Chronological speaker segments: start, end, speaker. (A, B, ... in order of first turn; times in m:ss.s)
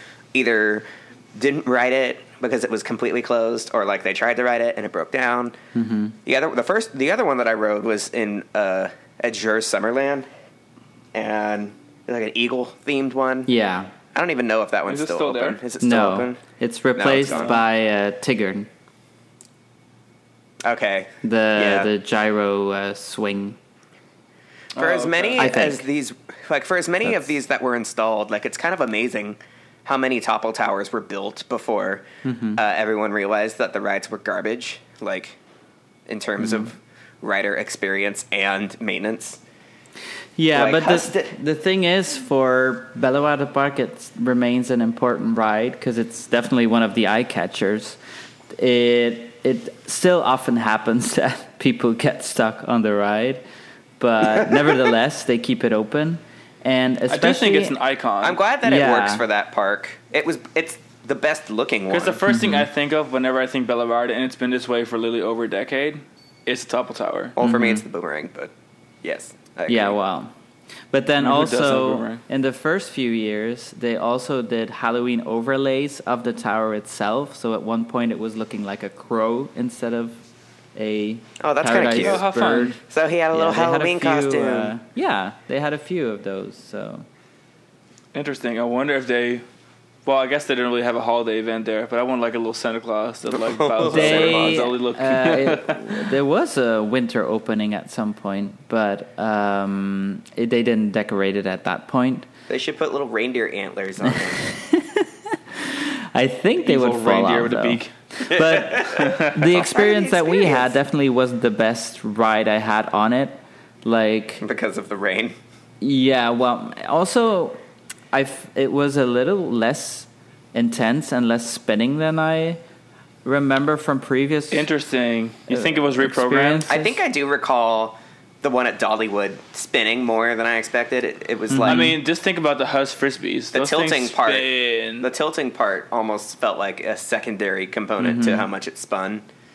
0:00.3-0:05.6 A
0:05.8-0:06.2 B
0:06.2-0:10.3 A
0:11.1-0:13.5 A
0:13.5-0:13.9 B
0:14.1-0:16.4 A
0:14.9-0:15.6 C
0:15.8-0:18.7 B
0:17.0-0:17.6 A
0:20.6-0:21.9 A
0:21.2-0:23.6 B
0:24.8-0:25.5 C
0:24.8-0:32.0 A
0:25.4-0:25.9 B
0:32.2-0:32.6 B
0:32.6-0:35.4 A
0:36.1-0:39.4 A
0:36.4-0:36.7 B
0:40.4-0:48.0 B
0:40.5-0:41.4 A
0:48.5-0:53.4 B
0:54.0-0:57.8 B
0:54.3-0:54.8 A
0:57.1-0:58.4 C
0:58.2-1:02.2 A
0:58.6-0:59.2 B
1:01.9-1:07.4 C
1:02.3-1:02.7 B
1:07.4-1:08.5 A
1:07.4-1:07.8 B
1:09.0-1:10.0 A
1:09.7-1:10.3 B
1:10.9-1:20.2 B
1:11.2-1:12.2 C
1:20.8-1:22.8 B
1:21.4-1:22.2 A
1:21.9-1:22.8 C
1:22.9-1:24.8 A
1:23.3-1:27.1 B
1:28.1-1:29.4 C
1:30.0-1:36.1 C
1:33.3-1:34.7 A
1:33.8-1:42.3 B
1:42.5-1:44.5 A
1:44.1-1:54.4 B
1:46.6-1:47.9 C
1:48.2-1:50.7 A
1:49.0-1:49.4 C
1:54.4-1:55.4 A
1:55.8-1:57.6 B
1:58.1-2:02.6 B
2:03.2-2:04.7 B
2:04.5-2:06.6 C
2:05.5-2:07.0 B
2:06.7-2:11.9 A
2:11.5-2:12.0 B
2:11.7-2:15.1 C
2:13.5-2:19.2 A
2:18.0-2:18.5 B